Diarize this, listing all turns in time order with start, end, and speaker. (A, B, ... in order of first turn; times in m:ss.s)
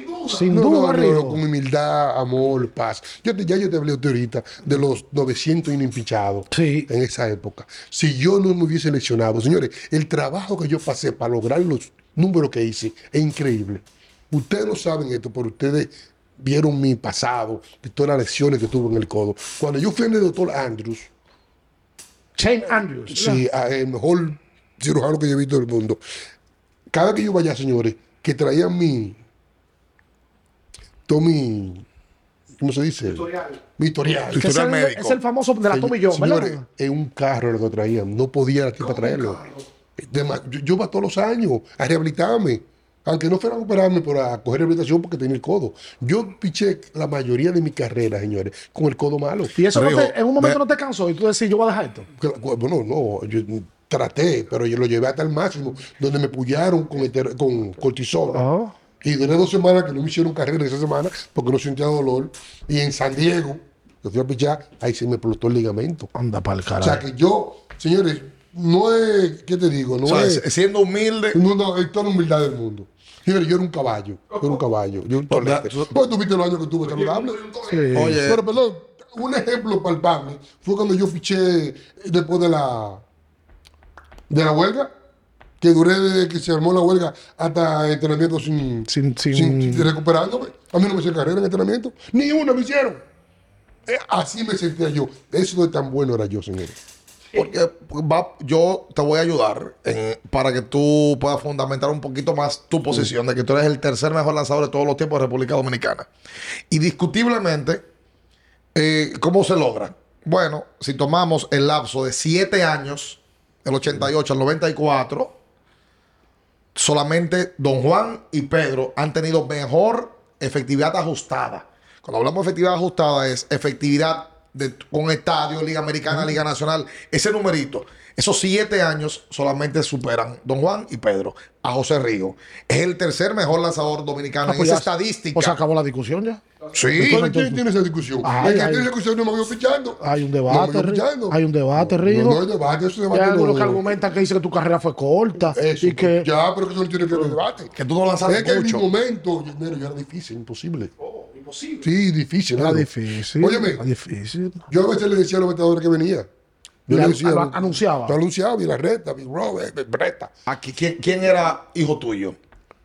0:00.2-0:01.4 A
0:00.4-0:21.1 B
0:06.5-0:06.9 A
0:22.4-0:23.4 A
0:23.1-0:26.0 B
0:26.9-0:29.2 B
0:31.1-0:31.8 B
0:32.6-0:34.5 B
0:34.3-0:35.2 C
0:34.3-0:36.6 A
0:35.7-0:39.4 B
0:40.0-0:49.6 B
0:49.6-0:52.1 A
0:49.7-0:50.6 C
0:52.2-0:58.4 B
0:58.3-0:58.7 A
0:59.0-1:06.1 B
1:06.1-1:07.0 A
1:06.8-1:10.4 B
1:10.0-1:11.4 C
1:11.3-1:23.0 B
1:15.3-1:16.0 C
1:17.6-1:18.2 A
1:17.9-1:18.4 C
1:24.3-1:24.9 B
1:25.6-1:33.0 B
1:28.9-1:29.9 A
1:33.8-1:36.8 B
1:37.3-1:46.1 C
1:46.7-1:47.8 C
1:48.7-1:55.3 C
1:56.7-2:15.6 C
2:14.4-2:16.4 A
2:16.7-2:17.2 C
2:16.9-2:24.0 B
2:17.0-2:17.6 A
2:18.2-2:18.9 A
2:20.0-2:22.4 A
2:23.1-2:26.3 A
2:25.4-2:27.7 B
2:27.7-2:28.9 C
2:28.2-2:30.9 B
2:31.8-2:33.8 B
2:32.6-2:34.6 A
2:34.7-2:36.3 B
2:36.9-2:40.3 B
2:36.9-2:38.2 A
2:40.5-2:42.4 C